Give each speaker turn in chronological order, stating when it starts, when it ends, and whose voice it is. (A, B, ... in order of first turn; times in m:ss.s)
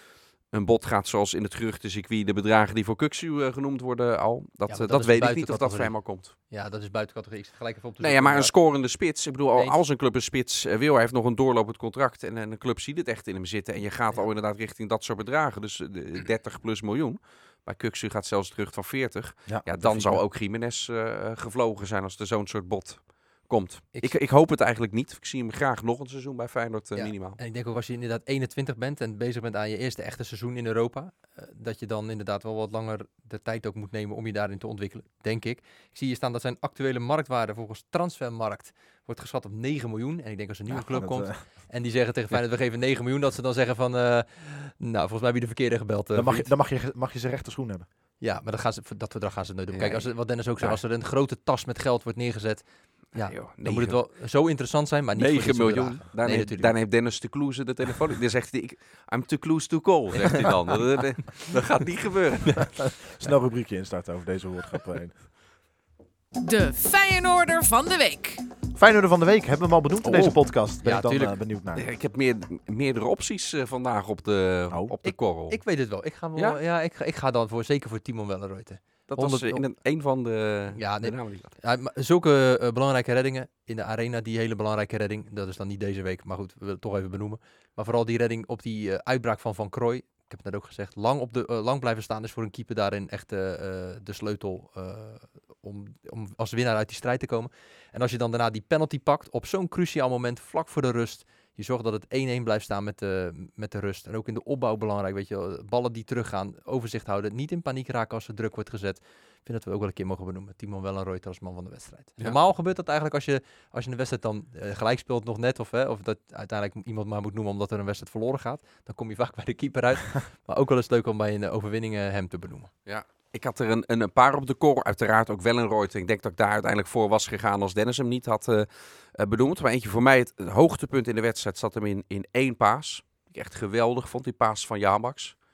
0:00.4-0:06.3 A
0:04.7-0:08.5 B
0:08.0-0:27.4 A
0:09.5-0:09.8 B
0:19.5-0:20.2 C
0:27.0-0:46.5 B
0:40.7-0:41.4 C
0:46.1-0:47.8 C
0:48.2-0:56.7 B
0:49.7-0:50.1 A
0:53.2-0:54.0 A
0:55.2-1:03.0 A
1:03.1-1:05.2 C
1:06.4-1:08.4 D
1:08.7-1:11.8 C
1:10.0-1:10.4 A
1:10.8-1:11.3 B
1:11.7-1:15.6 A
1:15.0-1:19.6 B
1:19.1-1:21.6 A
1:20.8-2:02.7 B
2:02.8-2:15.4 A